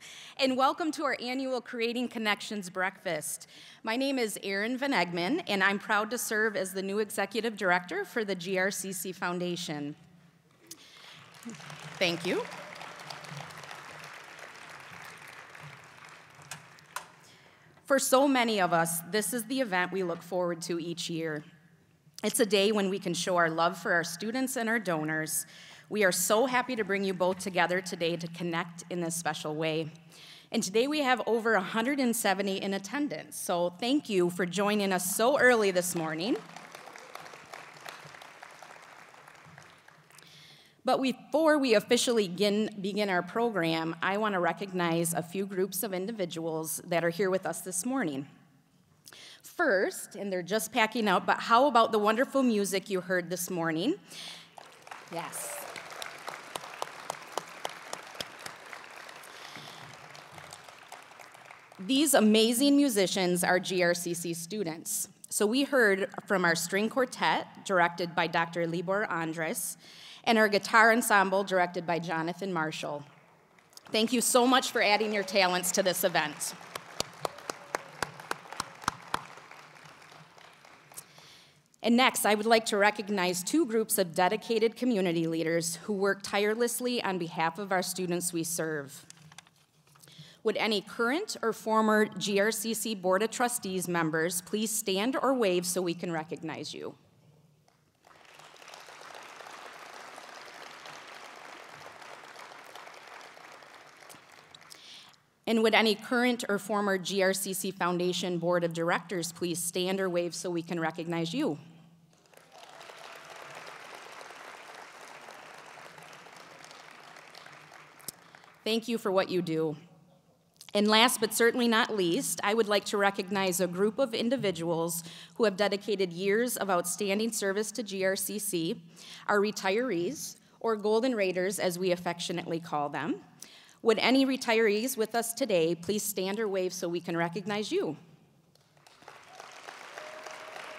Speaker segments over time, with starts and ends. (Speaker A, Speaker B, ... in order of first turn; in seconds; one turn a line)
Speaker A: 0.4-10.0
Speaker A: 12.0-12.5
Speaker A: 17.9-21.4
Speaker A: 22.2-29.9
Speaker A: 30.5-36.4
Speaker A: 40.8-48.3
Speaker A: 49.4-54.0
Speaker A: 55.1-55.7
Speaker A: 61.8-73.0
Speaker A: 73.9-76.6
Speaker A: 81.8-89.1
Speaker A: 90.4-97.0
Speaker A: 105.5-111.6
Speaker A: 118.7-119.8
Speaker A: 120.7-133.2
Speaker A: 133.8-138.0